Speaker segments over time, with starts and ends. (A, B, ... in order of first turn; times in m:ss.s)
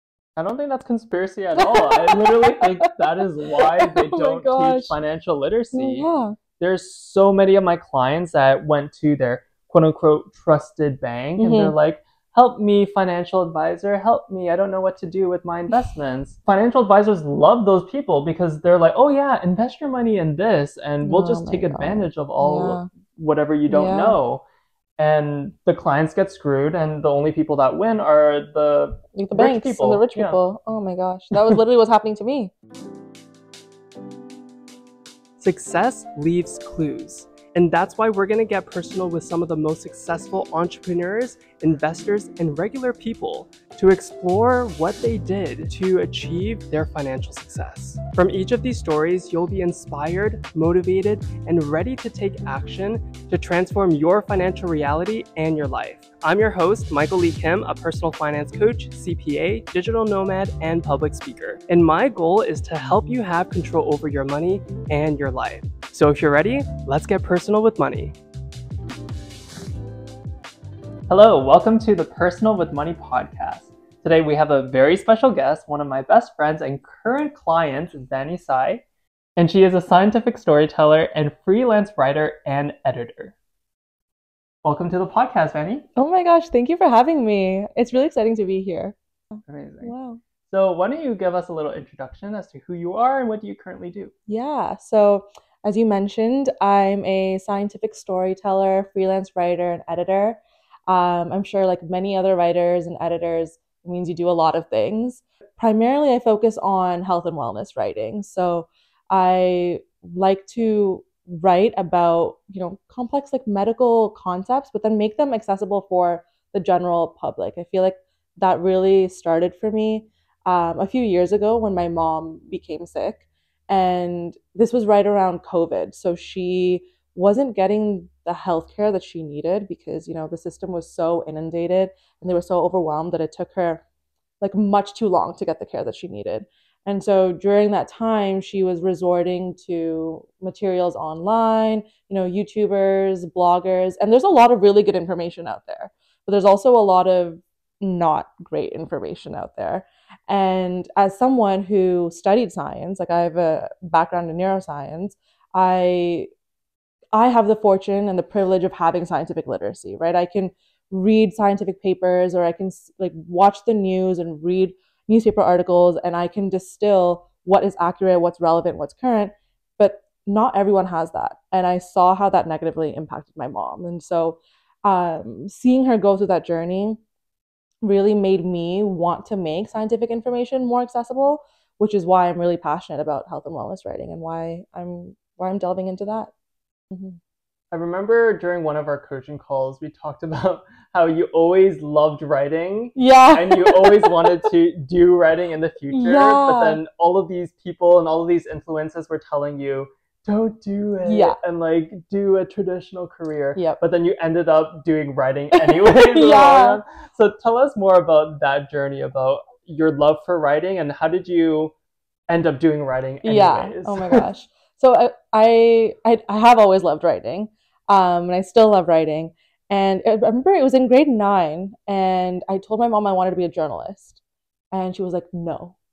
0:00.4-0:06.1 A
0:01.6-0:02.9 B
0:03.6-0:05.0 B
0:05.7-0:06.4 B
0:06.6-0:24.4 A
0:11.4-0:11.7 B
0:21.0-0:22.9 B
0:23.7-0:24.2 B
0:25.0-0:30.4 A
0:29.2-0:32.5 B
0:31.3-0:31.6 A
0:35.4-1:08.1 C
1:11.1-1:18.8 A
1:19.4-1:23.4 A
1:24.6-1:25.9 A
1:26.0-1:29.0 B
1:29.5-1:29.9 A
1:29.8-1:30.2 B
1:30.5-1:34.1 A
1:34.3-2:13.8 B
2:14.4-2:36.3 B
2:37.1-2:57.0 B
2:57.8-3:06.3 B
3:06.9-3:07.2 B
3:07.7-3:31.7 A
3:13.0-3:14.4 B
3:15.9-3:16.8 B
3:21.0-3:21.4 B
3:25.5-3:26.8 B
3:32.3-3:34.3 A
3:33.2-3:44.2 B
3:44.7-3:45.8 B